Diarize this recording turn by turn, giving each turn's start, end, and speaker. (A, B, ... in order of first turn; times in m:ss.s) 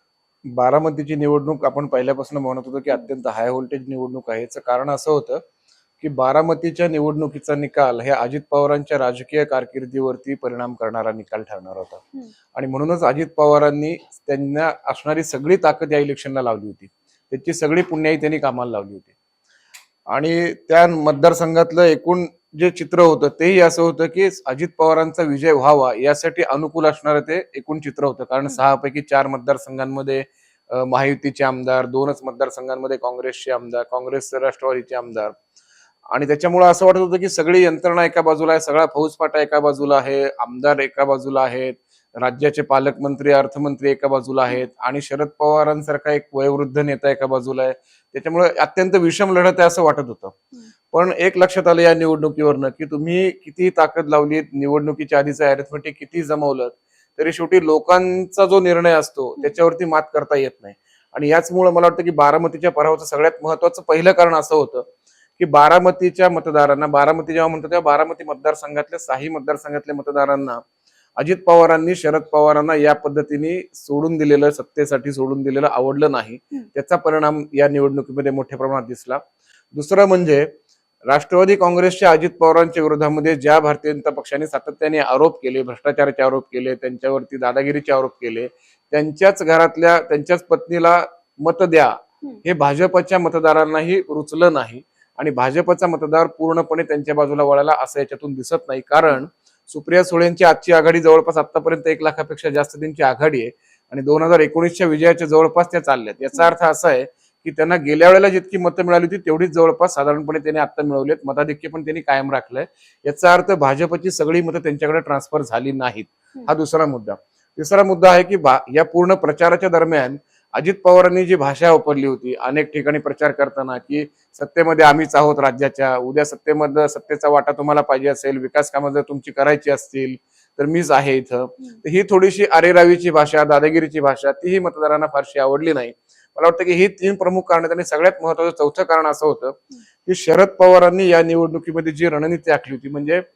0:00.5-0:05.4 A
0:06.0-0:12.0 A
0:12.6-0:19.1 A
0:20.1-0:35.3 A
0:36.1-0:50.4 A
0:50.9-1:04.9 A
1:05.4-1:10.6 A
1:11.2-1:19.2 A
1:19.7-1:20.5 A
1:21.1-2:23.2 A